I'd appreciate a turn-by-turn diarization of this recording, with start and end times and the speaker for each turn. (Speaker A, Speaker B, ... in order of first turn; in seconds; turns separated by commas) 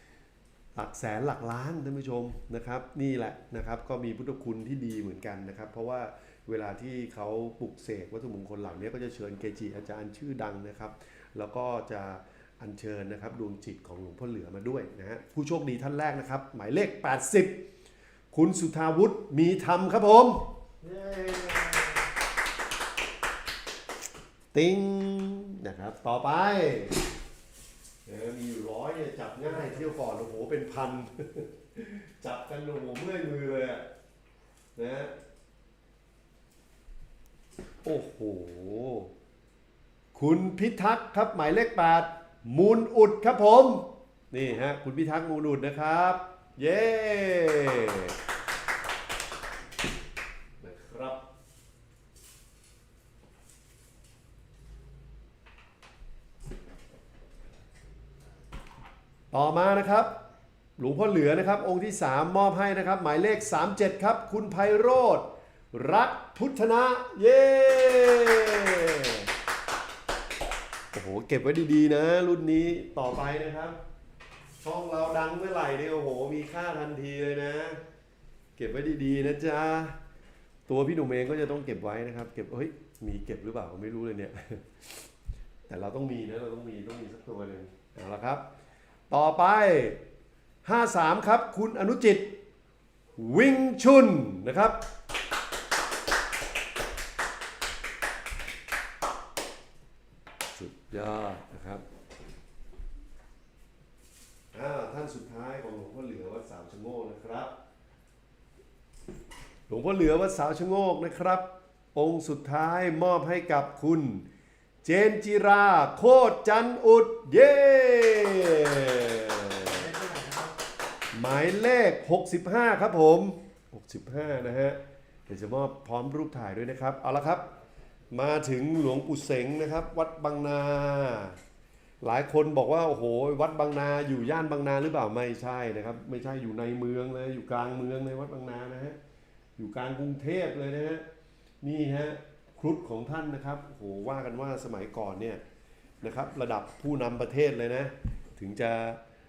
Speaker A: 0.8-17.6, Speaker A: 18.3-20.5, Speaker B: 20.8-22.1, Speaker A: 24.5-27.0, Speaker A: 28.1-33.9, Speaker B: 29.5-29.9, Speaker A: 34.8-35.1, Speaker A: 37.8-39.1, Speaker A: 40.1-48.2, Speaker A: 50.6-51.2, Speaker A: 59.3-60.2, Speaker A: 60.8-69.3, Speaker A: 70.9-73.8, Speaker A: 74.6-77.8, Speaker A: 78.6-80.0, Speaker A: 80.7-85.1, Speaker A: 85.7-88.5, Speaker A: 89.1-90.0, Speaker A: 90.6-92.4, Speaker A: 93.2-94.8, Speaker A: 100.5-101.8, Speaker A: 104.5-107.5, Speaker A: 109.7-114.3, Speaker A: 114.8-119.9, Speaker B: 119.7-120.6, Speaker A: 121.1-127.5, Speaker A: 128.1-131.4, Speaker A: 132.0-139.0, Speaker A: 139.6-141.1, Speaker A: 141.6-145.4, Speaker A: 146.0-149.0